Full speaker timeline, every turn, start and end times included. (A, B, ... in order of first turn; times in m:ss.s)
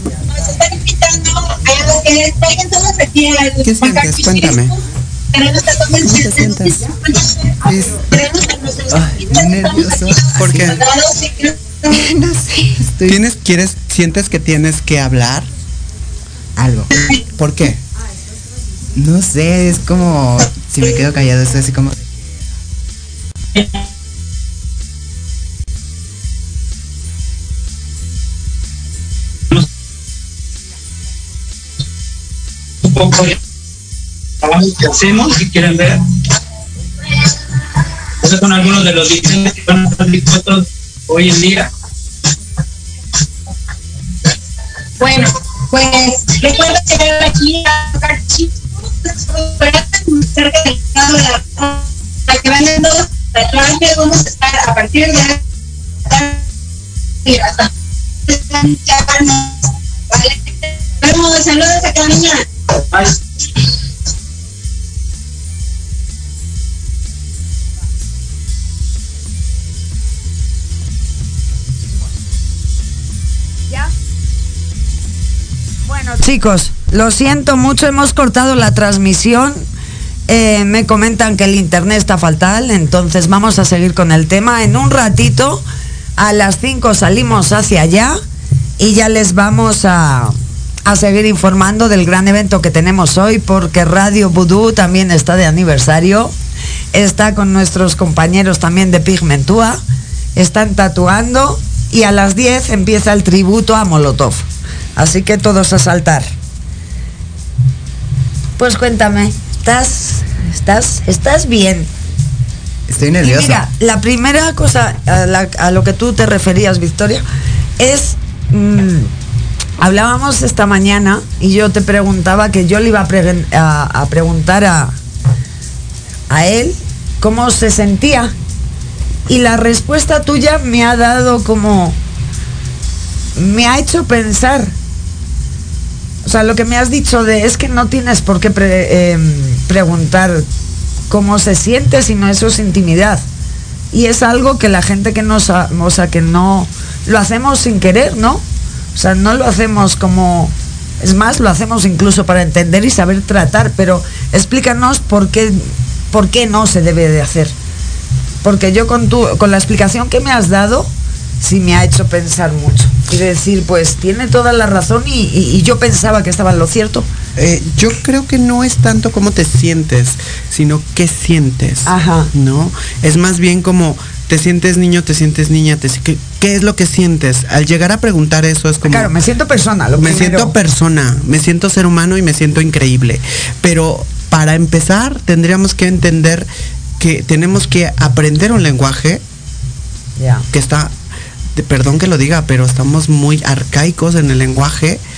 0:00.4-0:04.6 A
0:03.6-0:04.7 B
0:05.3-0:07.4 A
0:06.1-0:06.8 B
0:07.7-0:08.0 C
0:08.0-0:12.0 A
0:08.9-0:10.8 C
0:10.4-0:10.8 B
0:11.9-0:13.2 C
0:13.1-0:15.5 B
0:16.6-0:16.9 C
0:17.4-0:17.8 B
0:18.9-0:22.3 C
0:32.8-0:33.4 D
0:34.4-0:36.0 D
0:38.2-0:41.7 D
0:45.0-0:48.5 A
0:49.1-0:55.4 A
0:56.1-0:56.4 A
0:57.2-0:57.7 A
0:58.3-0:59.6 A
1:00.1-1:02.4 A
1:15.9-1:19.6 E
1:20.3-1:25.6 E
1:26.2-1:28.2 E
1:28.8-1:30.4 E
1:30.9-1:36.3 E
1:36.9-1:39.8 E
1:40.4-1:44.4 E
1:45.0-1:46.3 E
1:48.6-1:51.9 E
1:52.9-1:53.7 C
1:53.2-1:57.2 E
1:57.8-1:59.1 E
1:59.8-2:05.0 E
2:06.3-2:08.3 E
2:09.3-2:12.0 E
2:13.4-2:14.7 E
2:16.2-2:20.5 E
2:21.1-2:23.2 E
2:23.9-2:28.4 E
2:29.0-2:37.5 E
2:38.4-2:47.1 E
2:47.4-2:59.1 B
2:51.9-2:52.3 E
2:58.8-3:00.5 E
3:00.0-3:06.5 B
3:07.0-3:09.2 B
3:10.2-3:10.5 E
3:10.5-3:10.9 B
3:11.6-3:15.0 B